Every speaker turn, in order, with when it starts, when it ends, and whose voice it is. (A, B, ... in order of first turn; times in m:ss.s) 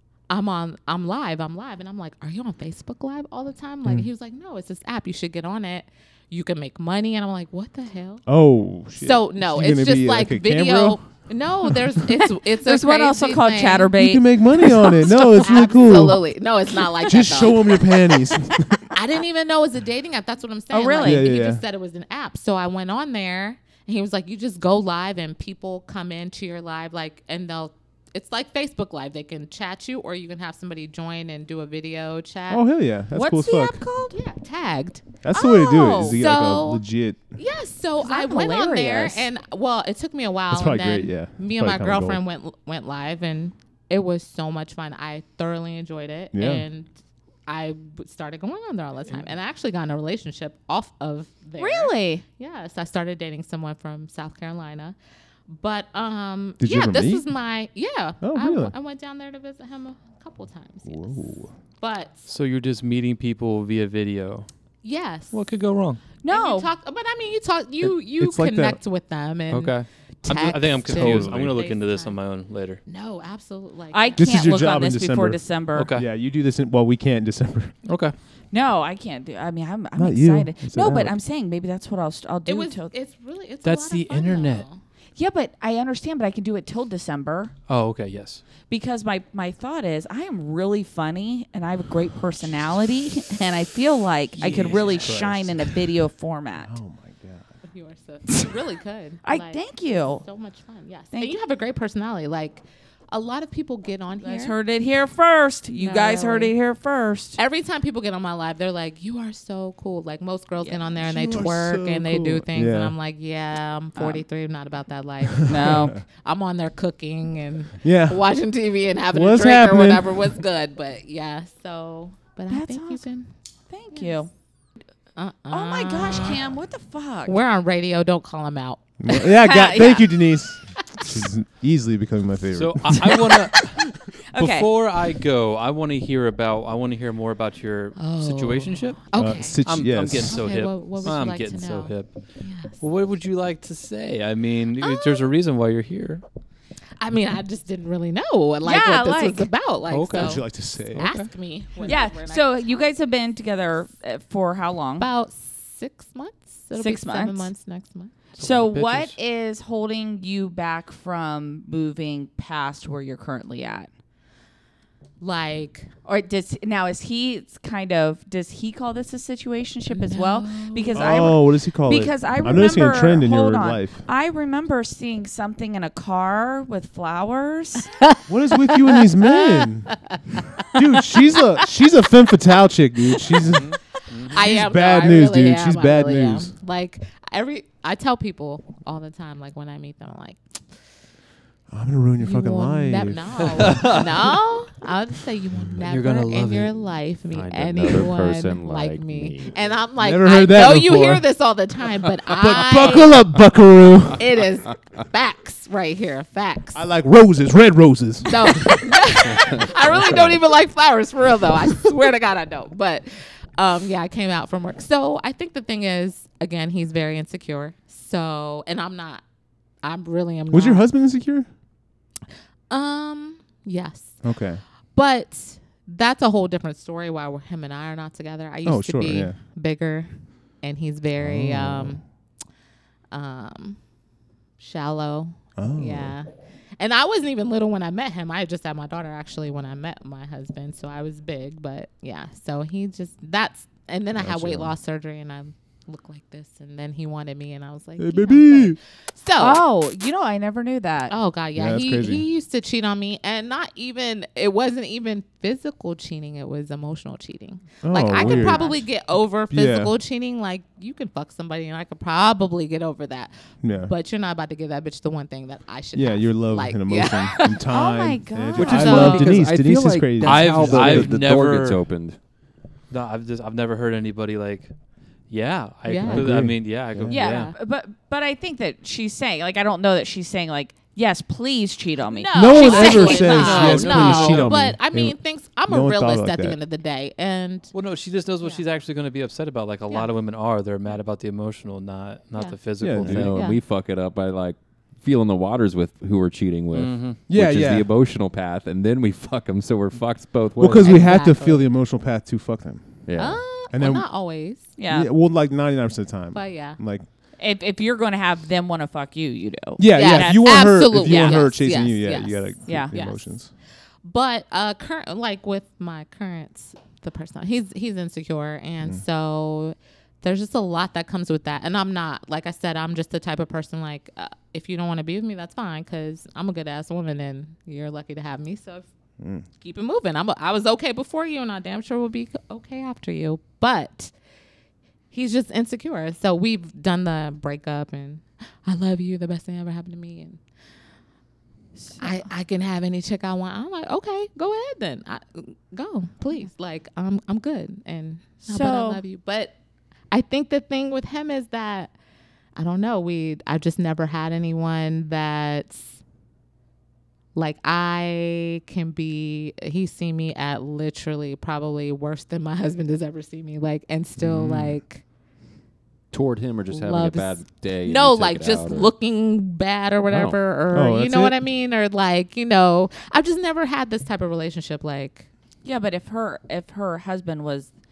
0:00.3-0:08.2 A
0:08.3-0:11.0 B
0:08.9-0:13.9 A
0:12.5-0:14.2 C
0:13.9-0:16.2 B
0:14.6-0:18.1 A
0:17.0-0:18.9 B
0:18.9-0:32.6 A
0:20.7-0:21.2 C
0:21.0-0:21.6 B
0:32.5-0:33.8 B
0:33.1-0:34.1 C
0:34.1-0:46.9 A
0:35.2-0:37.2 B
0:35.3-0:36.2 C
0:38.0-0:39.3 C
0:40.5-0:42.2 B
0:46.3-0:46.6 B
0:47.5-0:55.0 A
0:51.6-0:52.2 C
0:55.5-1:01.2 A
0:56.6-0:57.3 B
0:58.2-0:58.7 B
1:00.8-1:01.5 B
1:01.8-1:02.3 A
1:02.3-1:04.5 D
1:04.8-1:05.4 A
1:05.3-1:06.0 D
1:06.2-1:06.7 C
1:06.3-1:12.2 A
1:08.2-1:08.8 B
1:09.5-1:12.8 D
1:10.3-1:11.4 B
1:12.8-1:14.3 A
1:13.9-1:15.9 C
1:14.2-1:17.7 B
1:15.7-1:16.0 D
1:17.8-1:18.1 D
1:18.5-1:22.9 C
1:20.0-1:21.1 B
1:22.4-1:24.8 A
1:23.6-1:24.6 D
1:25.2-1:27.5 C
1:27.7-1:28.4 D
1:28.7-1:36.7 C
1:34.4-1:35.5 D
1:35.0-1:35.6 B
1:36.6-1:37.4 B
1:37.6-1:44.5 A
1:39.2-1:40.2 C
1:44.2-1:47.4 C
1:45.8-1:46.5 A
1:47.4-2:03.3 A
1:51.0-1:52.9 B
1:54.0-1:54.2 C
1:55.4-1:56.0 B
1:55.4-1:56.0 C
1:57.8-1:58.2 B
1:59.1-2:00.3 B
2:02.5-2:03.0 C
2:03.7-2:04.3 C
2:03.9-2:04.2 A
2:05.2-2:06.5 A
2:05.5-2:07.4 C
2:07.2-2:10.1 A
2:09.0-2:13.2 B
2:09.4-2:10.0 C
2:12.5-2:26.2 D
2:13.3-2:14.7 C
2:18.0-2:22.8 A
2:19.1-2:20.4 B
2:24.8-2:25.2 A
2:27.0-2:32.9 A
2:28.6-2:29.5 C
2:29.9-2:31.3 D
2:30.1-2:31.1 B
2:31.8-2:35.1 C
2:35.0-2:38.1 A
2:36.8-2:37.5 C
2:38.4-2:39.2 D
2:38.4-2:43.9 C
2:45.2-2:45.9 A
2:46.0-2:57.9 C
2:49.9-2:51.3 A
2:50.9-2:54.0 B
2:58.1-3:00.7 A
2:58.3-3:00.1 B
3:00.6-3:03.8 B
3:03.5-3:04.4 D
3:04.2-3:10.4 A
3:04.3-3:06.5 B
3:11.7-3:13.8 B
3:12.2-3:23.2 A
3:13.6-3:14.0 D
3:15.8-3:16.7 D
3:17.3-3:19.7 E
3:20.0-3:21.2 B
3:22.3-3:24.2 B
3:24.2-3:26.8 A
3:26.7-3:28.8 B
3:28.3-3:39.2 A
3:29.3-3:30.3 E
3:39.8-3:40.8 A
3:40.5-3:41.5 B
3:42.7-3:44.2 A
3:44.2-3:44.6 B
3:44.9-3:52.0 A
3:48.6-3:49.4 B
3:51.2-3:52.0 B
3:53.1-3:53.8 A
3:54.6-4:09.6 A
3:55.6-3:56.1 B
4:04.2-4:04.7 B
4:08.0-4:08.8 B
4:09.4-4:11.1 C
4:11.1-4:27.6 A
4:11.5-4:12.2 B
4:17.8-4:18.8 B
4:18.1-4:18.8 C
4:19.5-4:19.9 B
4:23.6-4:23.9 B
4:25.9-4:31.2 B
4:27.7-4:29.3 C
4:28.6-4:32.2 E
4:28.6-4:29.3 A
4:30.2-4:31.8 D
4:32.9-4:34.7 D
4:35.3-4:37.5 D
4:35.8-4:36.3 A
4:36.0-4:37.2 B
4:37.1-4:43.8 C
4:37.2-4:37.5 A
4:42.1-4:47.7 A
4:42.3-4:46.6 B
4:43.2-4:44.5 D
4:43.8-4:44.4 E
4:47.7-4:53.4 D
4:52.8-4:53.4 B
4:52.9-5:01.2 E
4:53.2-4:53.6 A
4:56.7-4:57.2 D
4:57.3-4:57.9 B
5:00.6-5:03.0 B
5:00.8-5:01.6 A
5:03.0-5:03.4 E
5:03.2-5:04.6 A
5:03.7-5:04.1 B
5:04.8-5:05.1 C
5:04.9-5:07.0 B
5:06.3-5:06.8 A
5:07.4-5:11.4 C
5:09.8-5:13.5 B
5:09.9-5:13.3 A
5:12.6-5:12.9 C
5:14.0-5:28.9 A
5:29.2-5:29.4 B
5:29.6-5:34.1 A
5:35.1-5:40.4 A
5:41.8-5:42.2 C
5:42.0-5:49.5 A
5:48.4-5:49.0 C
5:50.1-5:51.9 A
5:52.6-5:56.0 A
5:57.3-6:05.0 A
6:04.2-6:04.7 B
6:06.1-6:08.9 E
6:06.7-6:15.3 A
6:10.1-6:10.4 E
6:10.7-6:11.4 B
6:15.6-6:17.7 C